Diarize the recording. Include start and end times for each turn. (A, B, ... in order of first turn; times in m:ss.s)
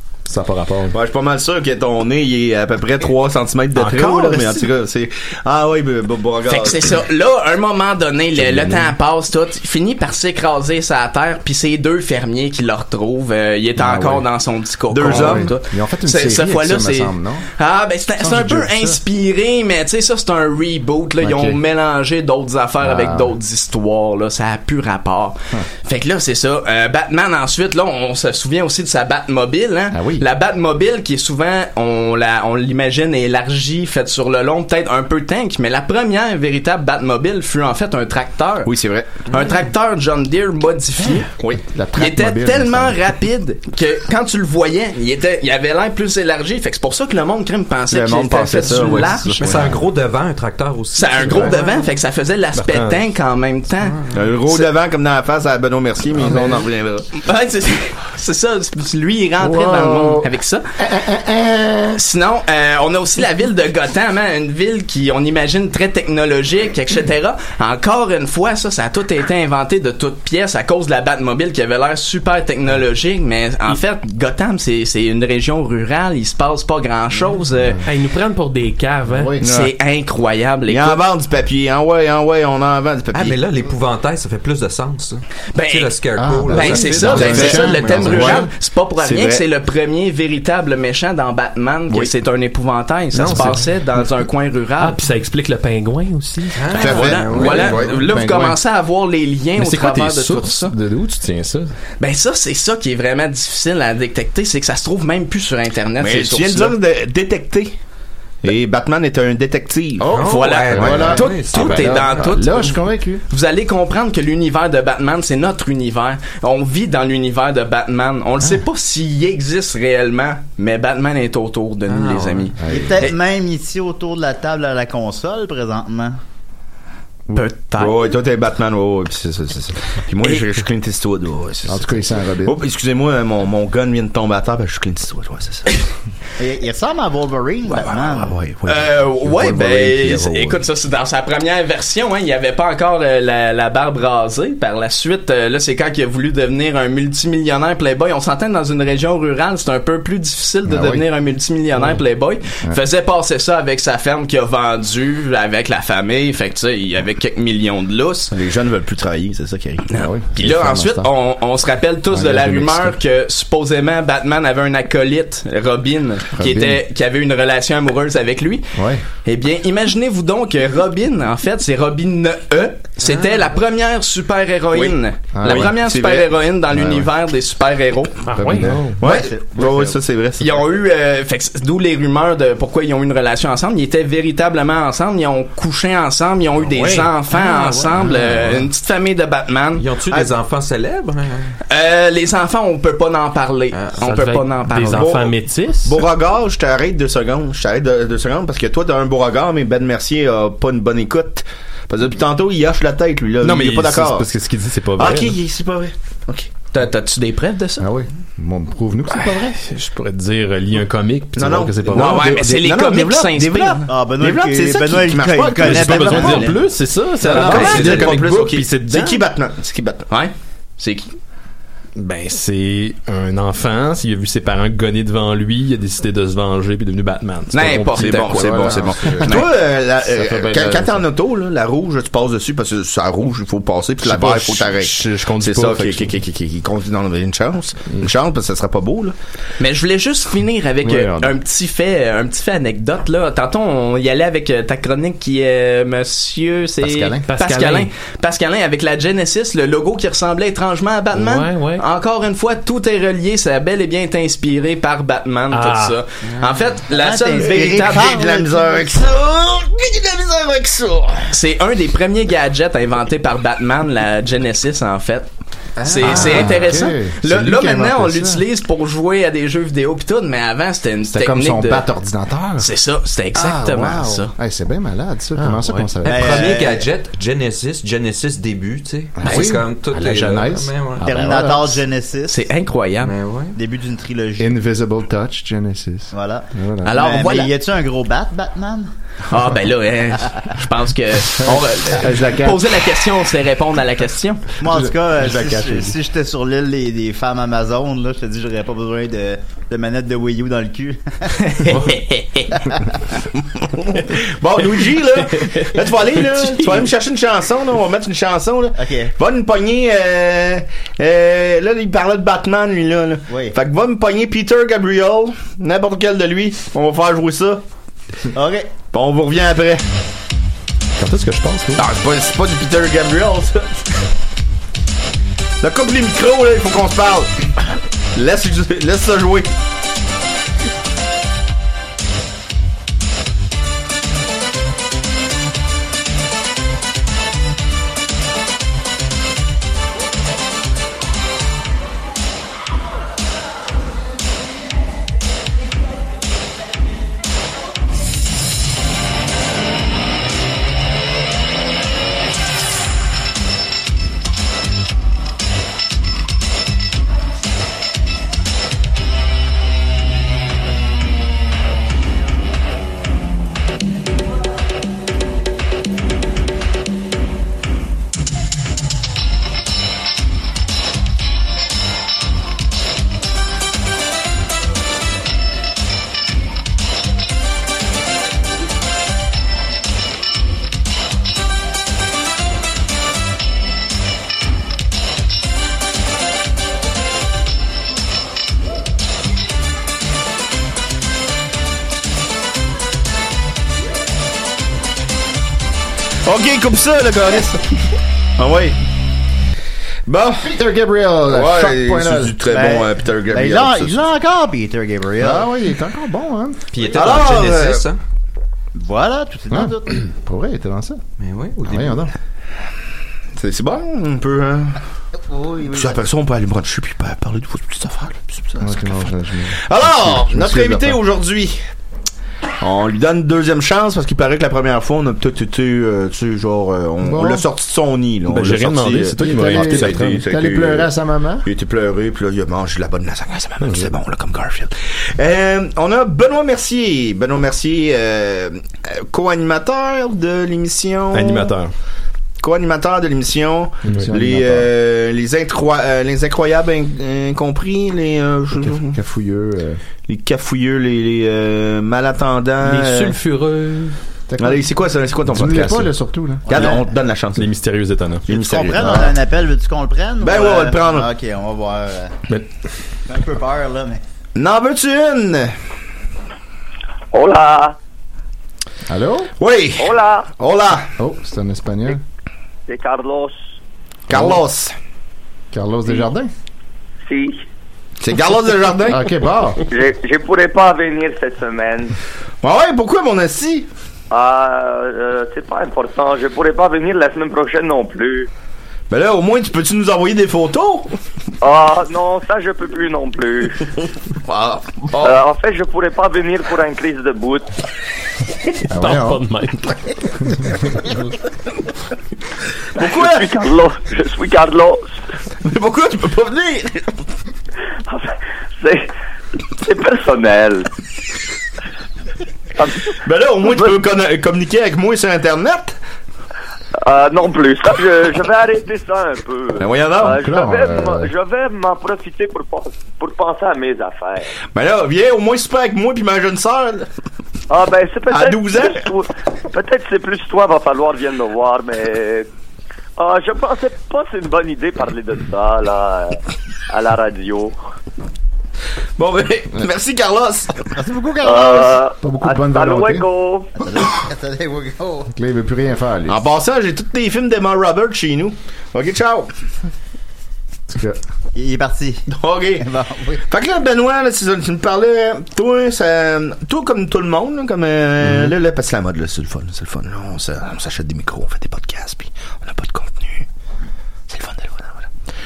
0:00.2-0:00.9 A
0:00.9-0:07.0 B
0:03.8-0:04.5 C
0:06.4-0:38.7 C
0:13.8-0:14.2 D
0:14.9-0:15.5 B
0:15.0-0:17.4 D
0:18.2-0:19.0 D
0:21.2-0:21.6 D
0:22.8-0:23.3 D
0:29.9-0:30.3 D
0:38.6-0:39.3 B
0:39.3-0:41.3 C
0:41.6-0:43.0 D
0:42.0-0:49.7 C
0:47.9-0:49.7 B
0:49.4-0:51.8 E
0:50.9-0:54.7 C
0:52.5-0:53.0 A
0:54.1-0:57.1 B
0:56.2-0:56.6 D
0:57.2-1:00.7 C
0:59.4-1:02.0 D
1:01.9-1:17.8 C
1:17.8-1:19.3 F
1:19.1-1:19.4 D
1:19.4-1:19.7 B
1:19.4-1:21.0 C
1:20.7-1:23.4 B
1:23.1-1:28.4 E
1:25.5-1:35.0 C
1:26.2-1:28.5 D
1:27.2-1:29.4 B
1:33.2-1:33.6 E
1:33.2-1:33.5 A
1:34.8-1:36.8 F
1:36.6-1:38.0 E
1:36.7-1:40.7 C
1:36.8-1:37.7 B
1:37.4-1:38.6 D
1:39.6-1:41.7 A
1:42.0-1:46.8 C
1:46.0-1:47.7 B
1:48.4-1:50.3 B
1:50.0-1:53.2 D
1:50.1-1:52.2 E
1:50.1-2:03.2 C
2:01.9-2:02.5 E
2:02.6-2:03.1 D
2:02.7-2:06.2 G
2:07.3-2:08.1 C
2:07.7-2:15.8 B
2:10.2-2:10.5 C
2:11.6-2:12.6 D
2:16.4-2:18.4 G
2:17.7-2:20.6 B
2:18.6-2:38.3 C
2:30.6-2:31.0 D
2:38.3-2:39.9 B
2:39.9-2:48.7 C
2:39.9-2:41.1 D
2:42.1-2:42.9 D
2:46.4-2:46.8 D
2:48.7-2:49.0 D
2:49.2-2:58.2 C
2:54.7-2:57.0 B
2:55.3-2:55.7 D
2:58.3-2:58.7 F
2:58.4-2:58.9 D
2:58.5-2:59.1 A
2:59.0-3:00.6 B
2:59.0-2:59.9 G
3:00.4-3:10.2 C
3:06.7-3:07.9 F
3:08.0-3:08.5 D
3:09.8-3:11.5 E
3:11.7-3:15.2 C
3:13.7-3:14.0 E
3:14.0-3:16.0 F
3:14.9-3:15.3 B
3:15.8-3:24.3 B
3:23.4-3:25.4 A
3:24.9-3:26.5 B
3:26.7-3:27.9 C
3:27.8-3:29.6 D
3:29.3-3:32.3 A
3:31.3-3:36.6 B
3:31.9-3:33.8 C
3:33.9-3:36.6 G
3:35.6-3:39.2 A
3:36.2-3:36.5 C
3:37.2-3:40.1 B
3:37.2-3:38.2 C
3:40.1-3:41.1 C
3:42.0-3:48.9 A
3:47.5-3:49.6 C
3:47.9-3:59.1 B
3:48.6-3:49.3 D
3:50.2-3:51.0 A
3:54.0-3:56.2 A
3:59.6-4:18.1 C
4:06.8-4:07.2 D
4:07.3-4:07.9 F
4:11.1-4:11.8 F
4:15.5-4:16.0 F
4:16.3-4:16.5 E
4:16.9-4:18.8 G
4:17.7-4:21.3 B
4:21.3-4:25.3 C
4:25.8-4:26.7 E
4:25.8-4:31.9 C
4:26.0-4:28.4 D
4:31.1-4:32.7 D
4:32.6-4:34.3 C
4:33.4-4:36.5 D
4:35.4-4:35.8 F
4:36.0-4:41.0 E
4:36.0-4:36.9 G
4:39.2-4:41.8 D
4:39.2-4:39.6 C
4:41.0-4:42.4 G
4:42.3-4:43.1 C
4:43.0-4:43.6 E
4:43.5-4:44.5 G
4:44.4-4:46.9 D
4:46.1-4:48.9 G
4:46.8-4:47.5 C
4:49.3-4:54.4 C
4:51.4-4:52.8 D
4:54.6-5:01.8 G
4:54.6-4:56.0 D
5:01.4-5:02.5 C
5:03.6-5:17.6 B
5:08.8-5:09.1 G
5:13.3-5:13.5 G
5:18.3-5:18.7 G
5:18.9-5:19.8 B
5:21.0-5:21.8 A
5:21.8-5:23.8 B
5:25.6-5:27.5 B
5:28.1-5:29.5 B
6:36.2-6:37.7 B
6:38.4-6:38.8 B
6:40.1-6:40.5 B
6:40.4-6:42.4 D
6:41.3-6:44.0 B
6:42.5-6:45.4 G
6:45.2-6:46.6 D
6:46.7-6:48.0 E
6:46.9-6:47.9 B
6:48.7-6:50.0 G
6:49.5-6:51.0 D
6:51.2-6:52.1 E
6:51.6-6:52.1 D
6:53.4-6:54.8 B
6:55.3-6:55.9 G
6:55.7-7:01.6 B
6:58.6-7:01.0 D
7:02.6-7:10.9 B
7:07.0-7:07.4 D
7:08.3-7:10.2 A
7:09.2-7:11.5 D
7:11.4-7:21.5 B
7:13.6-7:13.9 A
7:21.1-7:21.7 A
7:22.4-7:29.0 B
7:23.8-7:24.7 D
7:28.6-7:29.8 D
7:30.1-7:33.2 B
7:32.6-7:34.0 F
7:34.3-7:34.7 D
7:34.4-7:35.9 B
7:35.2-7:36.5 D
7:36.5-7:36.9 G
7:36.5-7:37.5 B
7:37.4-7:38.3 A
7:38.3-7:39.1 B
7:38.3-7:42.1 G
7:38.8-7:39.1 D
7:40.2-7:41.1 B
7:43.1-7:44.0 G
7:44.4-7:45.5 B
7:47.1-7:47.8 H
7:48.9-7:49.3 D
7:49.4-7:50.9 B
7:49.8-7:50.3 H
7:51.0-7:52.0 D
7:52.7-7:53.4 H
7:54.1-7:54.8 B
7:54.1-7:54.4 D
7:55.5-7:56.3 D
7:57.0-7:57.4 H
7:58.0-7:59.1 B
7:58.9-7:59.6 D
7:59.7-8:01.9 H
8:02.4-8:03.7 B
8:04.1-8:08.3 H
8:08.9-8:10.9 B
8:11.4-8:13.7 H
8:14.2-8:15.2 B
8:15.0-8:17.5 H
8:18.7-8:19.8 F
8:18.7-8:19.2 D
8:22.8-8:23.3 B
8:22.8-8:24.9 H
8:25.4-8:26.9 B
8:27.9-8:28.9 H
8:29.6-8:30.7 H
8:32.6-8:33.7 H
8:33.0-8:35.8 B
8:36.8-8:44.3 H
8:39.6-8:40.2 B
8:40.1-8:41.1 D
8:44.5-8:46.9 B
8:47.5-8:52.3 H
8:48.1-8:48.9 B
8:53.0-8:57.5 H
8:59.0-9:00.7 B
9:00.7-9:01.8 G
9:01.2-9:03.5 H
9:02.0-9:03.0 D
9:03.6-9:05.1 G
9:05.1-9:06.2 D
9:06.1-9:09.3 B
9:10.7-9:11.0 D
9:11.3-9:12.1 G
9:12.1-9:12.7 B
9:12.6-9:13.2 G
9:13.3-9:23.2 B
9:24.1-9:24.9 B